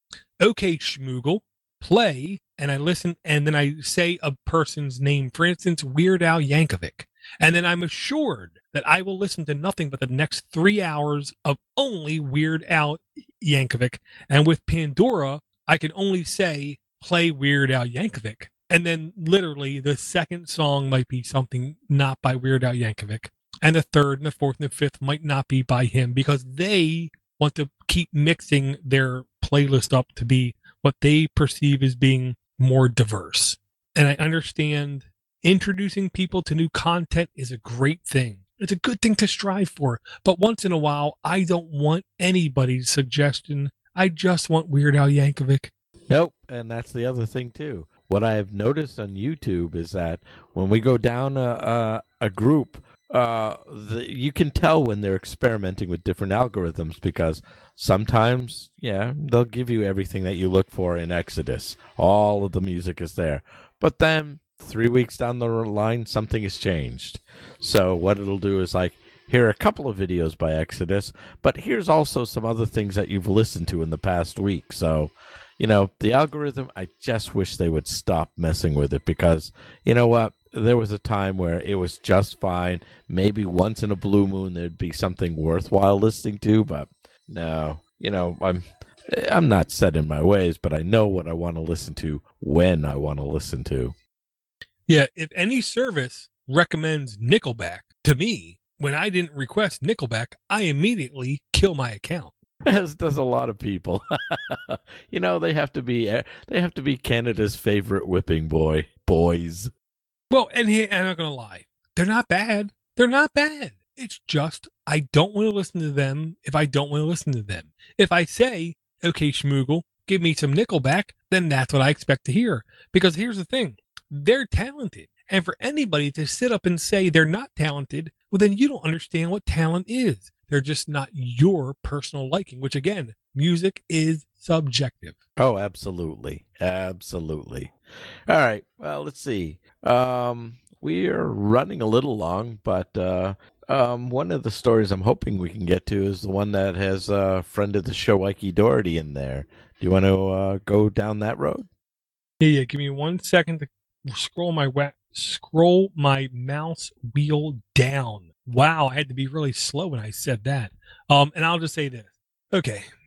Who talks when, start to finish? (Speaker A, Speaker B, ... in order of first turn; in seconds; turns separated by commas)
Speaker A: 0.4-45.7, Speaker B: 46.1-94.0, Speaker A: 94.9-102.3, Speaker B: 102.7-109.7, Speaker A: 110.3-135.2, Speaker B: 135.4-137.7, Speaker B: 138.3-151.7, Speaker A: 152.4-162.8